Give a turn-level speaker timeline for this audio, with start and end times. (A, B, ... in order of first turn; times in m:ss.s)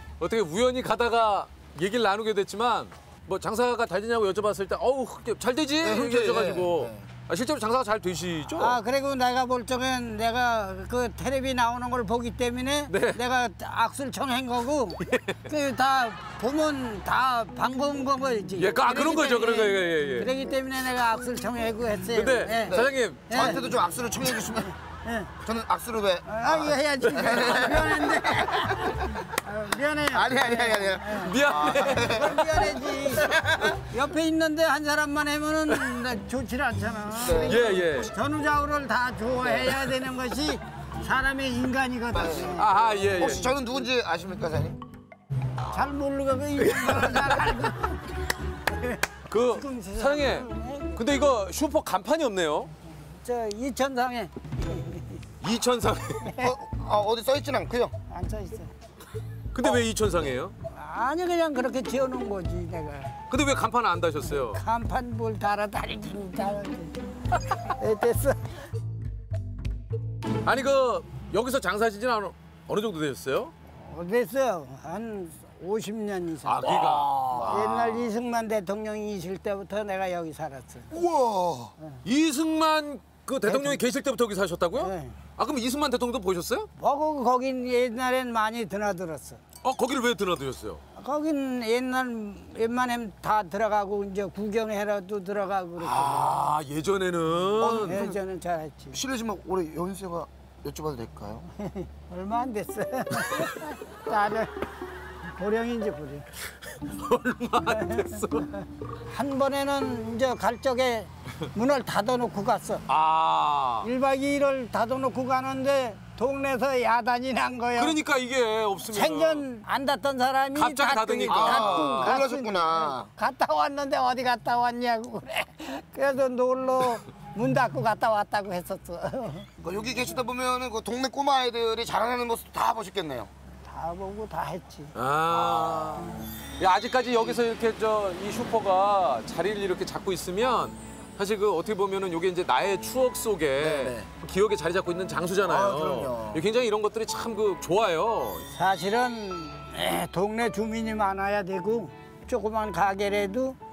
0:00.2-0:08.8 A
0:05.8-0:07.1 B
0:08.6-0:23.6 C
0:12.9-0:13.2 A
0:15.1-0:15.5 A
0:18.6-0:20.3 A
0:22.1-0:23.6 A
0:22.7-0:24.7 B
0:25.0-0:25.3 C
0:25.4-0:29.2 B
0:26.3-0:42.7 C
0:27.1-0:27.6 A
0:30.1-0:33.7 B
0:31.1-0:32.7 A
0:37.2-0:37.6 B
0:37.4-0:38.1 A
0:39.4-0:39.8 B
0:42.1-0:42.6 B
0:42.5-0:43.5 A
0:43.2-0:44.8 B
0:45.7-0:48.1 C
0:46.6-0:47.6 A
0:48.7-0:51.0 C
0:49.3-0:52.7 A
0:53.0-0:55.2 C
0:55.4-0:56.4 A
0:56.2-0:56.5 C
0:56.4-0:57.9 B
0:58.1-0:58.7 C
0:59.5-1:00.5 A
1:00.7-1:03.1 C
1:03.3-1:04.6 A
1:04.3-1:07.0 C
1:07.5-1:08.6 C
1:10.4-1:13.5 A
1:13.8-1:16.7 C
1:16.4-1:18.1 A
1:16.7-1:17.7 B
1:17.4-1:21.0 C
1:20.9-1:21.7 B
1:22.0-1:26.7 A
1:23.5-1:23.8 C
1:24.8-1:25.2 C
1:26.8-1:29.4 C
1:29.6-1:30.8 A
1:31.0-1:36.3 C
1:35.8-1:38.0 A
1:37.6-1:38.2 B
1:37.8-1:39.0 C
1:38.9-1:41.5 B
1:41.6-1:44.5 C
1:45.3-1:46.2 C
1:46.7-1:48.5 A
1:47.7-1:52.8 C
1:52.9-1:53.9 A
1:53.8-1:58.0 C
1:57.8-1:59.4 A
1:58.9-2:09.5 C
2:00.5-2:02.2 A
2:01.3-2:03.1 B
2:09.6-2:13.3 B
2:13.7-2:14.9 C
2:14.9-2:28.5 A
2:15.3-2:16.0 B
2:23.6-2:24.1 B
2:25.4-2:26.4 B
2:28.5-2:33.6 C